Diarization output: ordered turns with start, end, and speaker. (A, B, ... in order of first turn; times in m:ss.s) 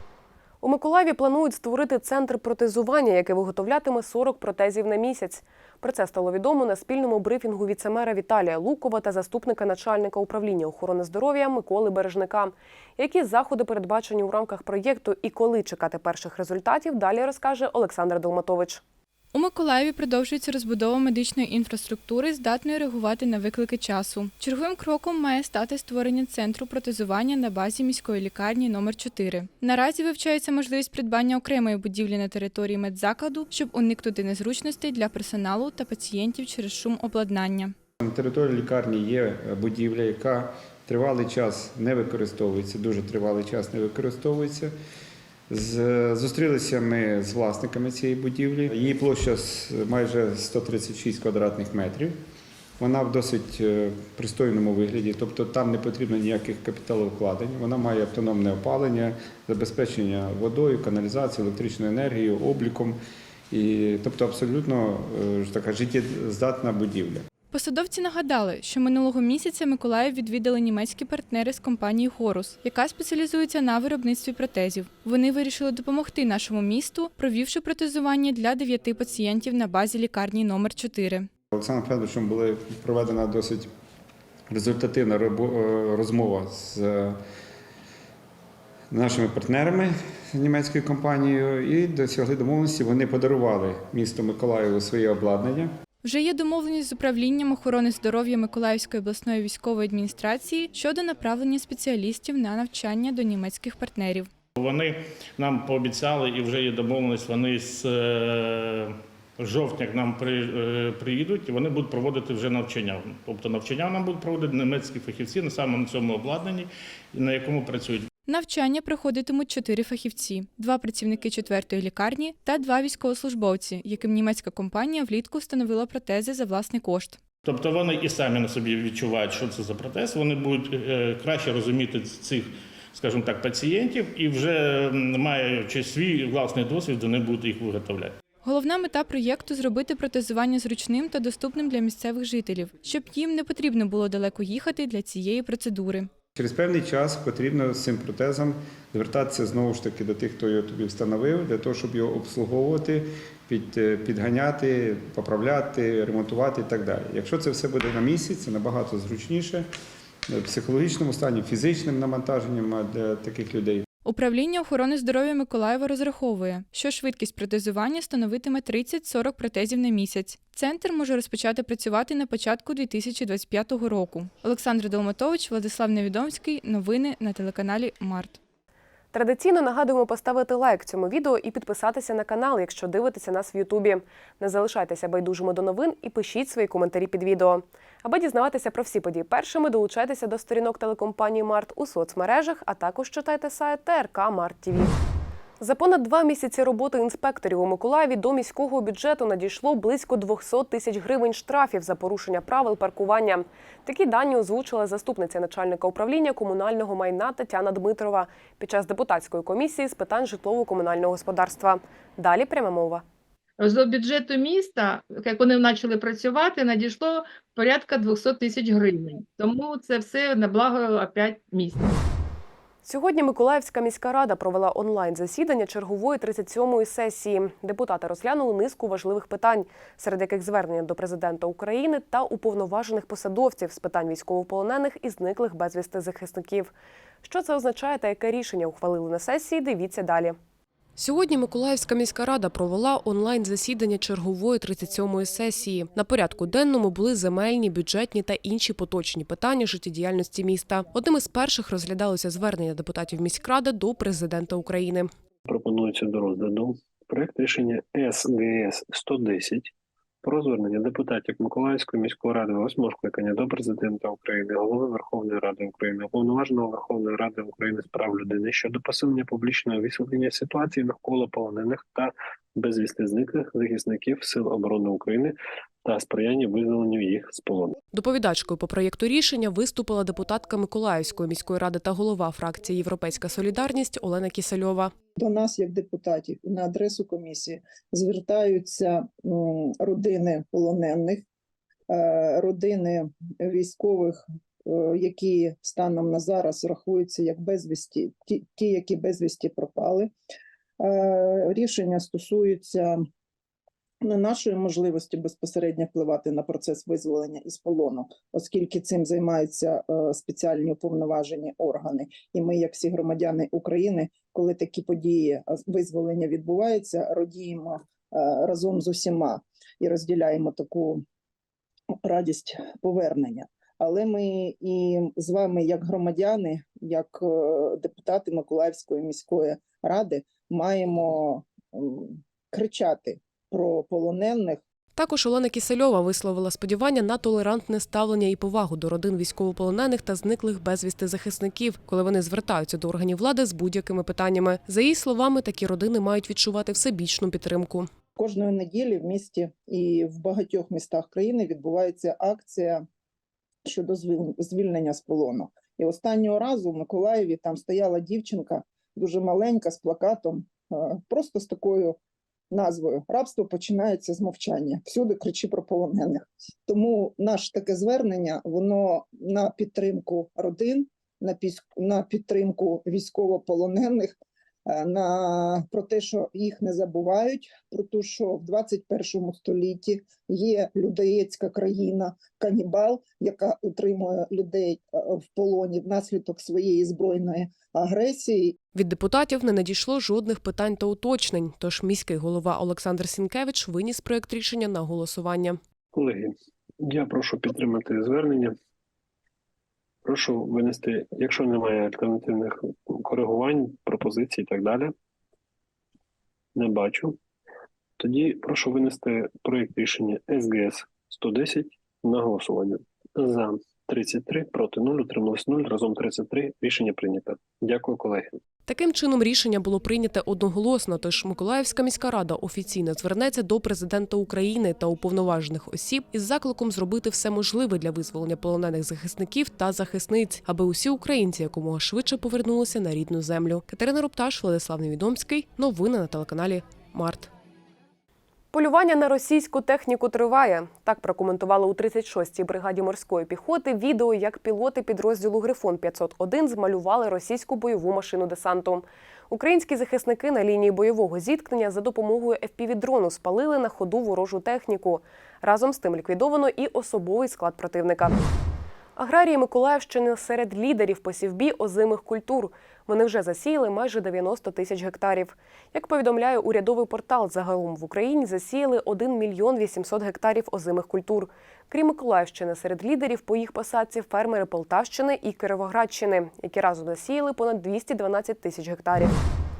0:00.6-0:18.8 A
0:19.3-0:37.7 B
0:38.0-0:44.7 C
0:45.5-0:52.2 C
0:52.8-1:03.0 C
1:03.5-1:07.2 C
1:07.5-1:21.3 B
1:21.5-1:23.7 C
1:24.5-1:27.2 C
1:28.9-1:35.7 C
1:36.0-1:44.3 B
1:44.6-1:58.1 D
1:58.3-2:07.2 B
2:07.4-2:18.1 D
2:18.4-2:26.1 B
2:26.4-2:39.7 C
2:40.3-2:43.8 C
2:44.1-2:58.4 B
2:59.1-3:14.9 A
3:15.6-3:33.0 A
3:33.6-3:41.9 E
3:42.8-3:56.7 A
3:57.2-4:00.4 A
4:01.0-4:15.1 A
4:15.5-4:37.8 F
4:37.9-4:44.9 A
4:45.2-4:51.2 G
4:51.9-5:00.1 G
5:00.8-5:03.0 G
5:04.0-5:21.0 G
5:22.0-5:34.6 G
5:35.0-5:47.9 A
5:48.2-5:52.8 G
5:53.6-6:02.0 G
6:02.5-6:28.6 G
6:28.8-6:35.6 A
6:35.9-6:38.5 F
6:40.0-6:44.9 F
6:46.6-6:47.2 F
6:48.0-6:58.4 F
6:58.7-7:17.3 A
7:18.5-7:38.2 A
7:39.0-7:59.1 A